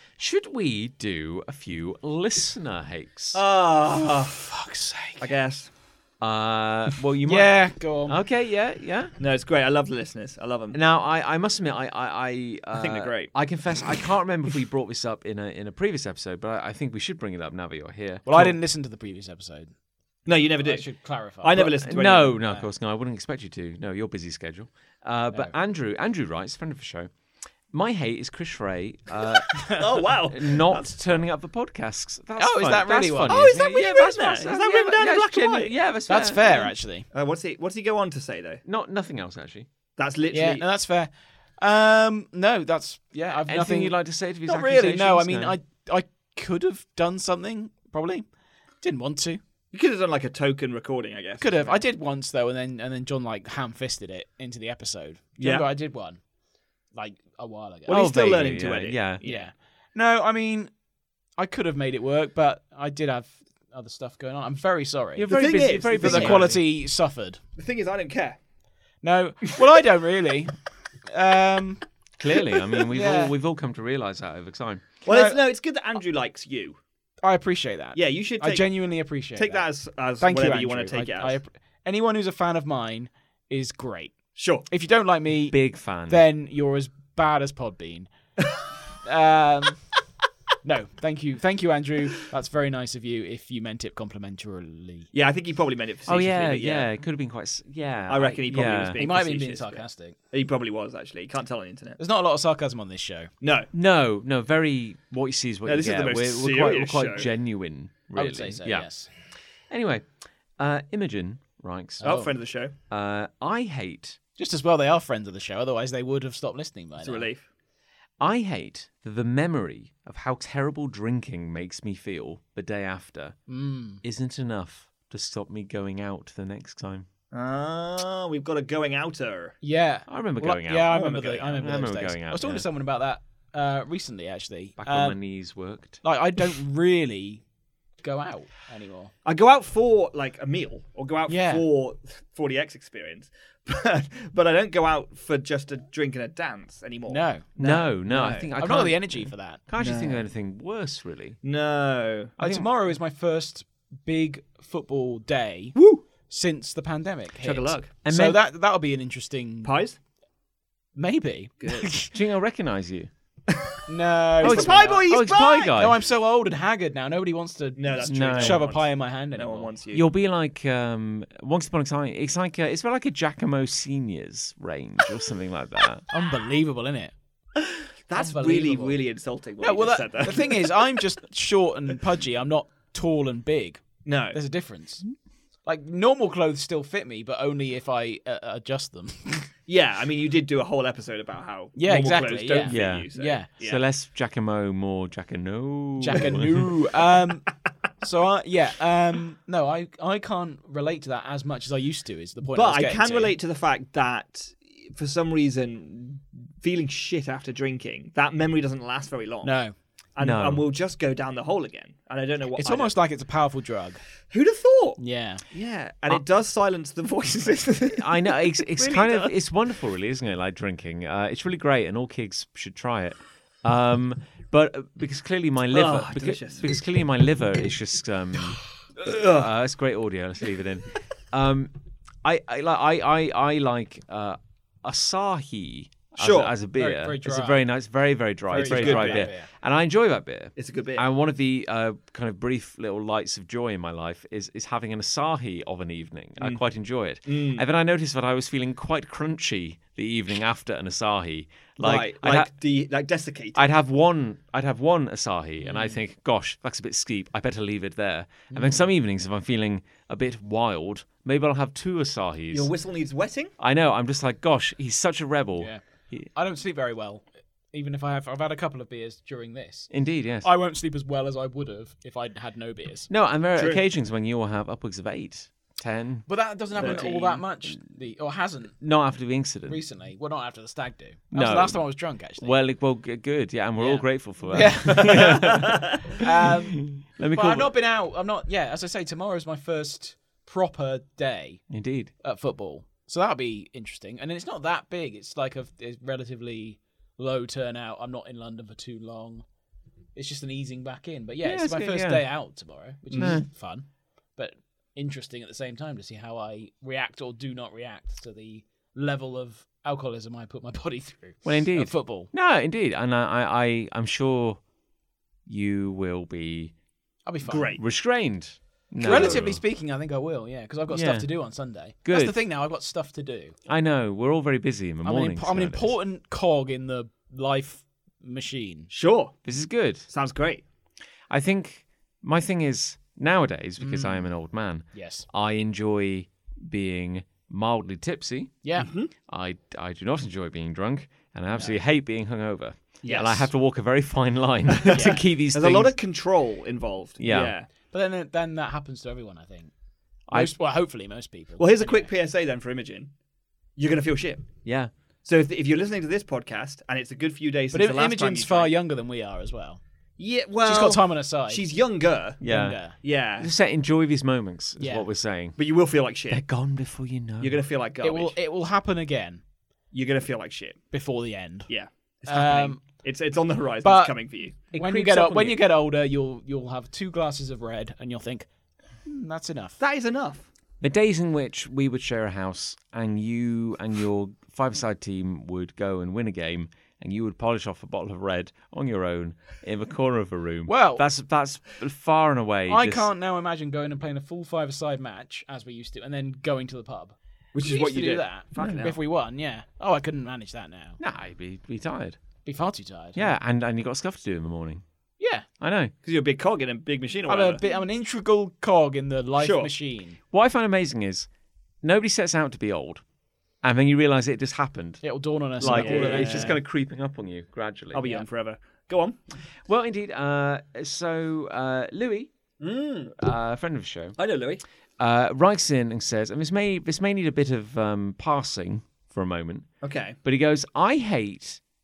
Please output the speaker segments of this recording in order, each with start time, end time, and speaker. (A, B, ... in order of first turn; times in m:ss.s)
0:00.2-0:03.4 A
0:03.3-0:04.4 B
0:04.0-0:05.3 C
0:05.2-0:05.7 B
0:06.2-0:09.1 A
0:07.2-0:08.2 C
0:09.2-0:10.8 B
0:10.7-0:18.6 A
0:12.7-0:13.3 B
0:18.2-0:19.7 C
0:20.2-0:22.4 B
0:20.6-0:21.7 C
0:21.5-0:27.1 A
0:27.7-0:36.7 A
0:29.5-0:29.8 C
0:29.7-0:31.0 B
0:32.4-0:33.5 C
0:33.3-0:35.7 B
0:36.1-0:37.1 C
0:37.1-0:38.6 B
0:38.6-0:39.7 A
0:40.0-0:40.6 B
0:40.3-0:48.2 C
0:43.5-0:45.6 A
0:48.8-0:49.4 C
0:49.7-0:51.8 B
0:51.4-0:56.2 C
0:55.4-0:55.7 B
0:56.9-0:58.0 C
0:57.9-0:59.5 B
0:57.9-0:59.2 A
0:59.2-1:00.7 C
1:01.4-1:05.4 C
1:05.2-1:06.6 A
1:05.3-1:06.5 B
1:05.9-1:07.4 C
1:07.6-1:08.4 B
1:09.0-1:11.8 C
1:12.2-1:14.9 A
1:12.8-1:13.3 C
1:15.0-1:16.8 B
1:15.0-1:15.4 C
1:17.2-1:19.6 C
1:17.9-1:18.7 B
1:19.4-1:21.4 B
1:20.2-1:24.2 C
1:24.4-1:24.7 B
1:24.7-1:28.1 C
1:25.5-1:26.2 A
1:29.0-1:29.8 C
1:30.6-1:35.1 C
1:35.1-1:36.9 B
1:36.0-1:39.0 A
1:38.1-1:42.0 B
1:39.0-1:40.2 C
1:42.0-1:43.3 C
1:43.4-1:43.7 B
1:43.7-1:48.9 A
1:45.6-1:47.3 B
1:48.2-1:49.1 C
1:49.7-1:52.0 A
1:52.0-1:52.3 C
1:52.0-1:52.7 B
1:52.9-1:54.2 A
1:54.4-1:57.3 C
1:57.0-1:57.4 B
1:58.2-2:03.4 A
2:03.5-2:04.0 C
2:04.0-2:07.1 A
2:07.3-2:09.6 B
2:09.6-2:15.2 C
2:10.1-2:12.6 A
2:10.9-2:11.6 B
2:14.8-2:16.0 A
2:16.0-2:17.4 C
2:18.0-2:19.1 C
2:19.2-2:28.5 B
2:21.3-2:21.6 C
2:27.1-2:27.4 C
2:27.6-2:31.4 A
2:28.6-2:29.6 C
2:29.8-2:30.2 B
2:31.4-2:32.3 B
2:32.4-2:32.7 A
2:32.4-2:35.8 C
2:35.7-2:36.0 B
2:36.3-2:39.7 C
2:37.4-2:37.9 B
2:38.0-2:38.4 A
2:39.6-2:40.0 B
2:41.0-2:42.1 C
2:41.6-2:42.0 B
2:42.1-2:43.1 A
2:43.5-2:43.8 B
2:43.9-2:45.0 C
2:44.4-2:45.8 B
2:44.4-2:46.0 A
2:45.7-2:49.7 C
2:47.8-2:50.0 B
2:48.0-2:48.6 A
2:49.9-2:56.0 A
2:56.1-2:57.1 C
2:58.1-3:00.8 B
2:58.1-2:59.0 C
2:59.6-3:05.0 C
3:04.0-3:04.4 B
3:05.6-3:09.5 C
3:09.7-3:13.8 B
3:11.8-3:13.5 C
3:12.6-3:16.7 A
3:16.0-3:23.3 C
3:22.5-3:29.5 B
3:29.4-3:29.7 C
3:30.2-3:32.9 B
3:30.2-3:30.6 A
3:32.5-3:34.0 C
3:34.3-3:39.3 B
3:35.0-3:35.4 C
3:37.9-3:51.7 A
3:45.7-3:46.8 B
3:49.0-3:49.5 B
3:52.2-4:12.5 A
3:56.2-3:56.5 B
3:56.8-3:57.7 C
3:58.5-3:59.5 C
3:58.5-3:59.3 B
4:00.6-4:01.0 B
4:07.2-4:07.6 B
4:11.8-4:13.6 B
4:13.5-4:22.7 A
4:15.6-4:16.0 C
4:18.5-4:18.8 C
4:22.5-4:23.5 B
4:23.6-4:26.3 A
4:25.6-4:29.9 C
4:29.9-4:30.5 A
4:30.4-4:33.1 C
4:33.1-4:37.1 A
4:33.6-4:33.8 B
4:36.3-4:38.8 C
4:36.8-4:37.4 B
4:38.8-4:39.8 A
4:39.6-4:42.6 C
4:41.3-4:41.8 A
4:42.4-4:47.7 A
4:43.8-4:51.6 C
4:45.1-4:46.1 B
4:51.7-4:52.1 A
4:52.2-4:59.4 C
5:00.1-5:03.8 C
5:01.4-5:02.2 A
5:03.1-5:03.4 B
5:03.2-5:03.5 A
5:04.4-5:12.3 C
5:11.4-5:14.6 A
5:15.4-5:16.7 A
5:17.2-5:17.8 C
5:17.4-5:17.8 B
5:17.8-5:19.6 A
5:19.0-5:19.4 B
5:19.0-5:23.5 C
5:20.9-5:21.3 A
5:22.0-5:22.4 A
5:23.7-5:25.9 A
5:25.0-5:28.9 C
5:28.9-5:29.4 B
5:29.4-5:30.1 A
5:30.1-5:30.6 B
5:31.3-5:38.6 A
5:33.8-5:34.3 C
5:34.9-5:35.3 C
5:38.6-5:38.9 C
5:38.8-5:39.1 B
5:39.2-5:45.9 A
5:41.5-5:41.8 C
5:43.0-5:43.5 B
5:44.7-5:47.7 B
5:44.9-5:45.2 C
5:47.2-5:47.5 A
5:47.9-5:49.7 C
5:50.3-5:50.5 A
5:50.3-5:52.1 C
5:51.6-5:53.1 B
5:53.8-5:54.5 B
5:54.6-5:54.9 A
5:55.2-5:58.7 B
5:57.7-5:59.8 C
6:00.2-6:02.4 B
6:00.6-6:01.7 C
6:02.4-6:02.8 A
6:02.4-6:02.9 C
6:02.9-6:03.5 B
6:03.4-6:05.6 A
6:04.8-6:05.1 C
6:05.6-6:06.4 B
6:06.3-6:07.6 A
6:07.4-6:08.4 B
6:08.0-6:09.4 C
6:09.9-6:10.8 B
6:10.9-6:11.7 C
6:11.7-6:14.6 B
6:12.3-6:12.8 C
6:13.8-6:14.2 C
6:14.7-6:18.5 C
6:14.7-6:15.6 A
6:19.0-6:19.8 C
6:19.8-6:20.5 B
6:20.8-6:33.1 A
6:30.7-6:31.0 C
6:32.7-6:41.0 C
6:37.5-6:38.9 B
6:38.6-6:38.9 A
6:41.0-6:42.2 A
6:42.4-6:43.3 C
6:43.1-6:44.8 A
6:45.2-6:45.4 C
6:45.6-6:45.9 A
6:46.0-6:47.6 B
6:47.3-6:50.2 C
6:49.4-6:49.7 B
6:50.3-6:51.3 A
6:51.8-6:53.0 A
6:53.6-6:55.0 A
6:55.0-6:56.6 C
6:55.6-6:58.1 A
6:55.6-6:56.6 B
6:57.9-6:59.2 B
6:59.6-7:02.3 A
7:02.6-7:03.1 B
7:03.2-7:04.2 A
7:04.2-7:04.6 B
7:05.0-7:09.7 A
7:09.8-7:10.2 B
7:10.2-7:11.6 A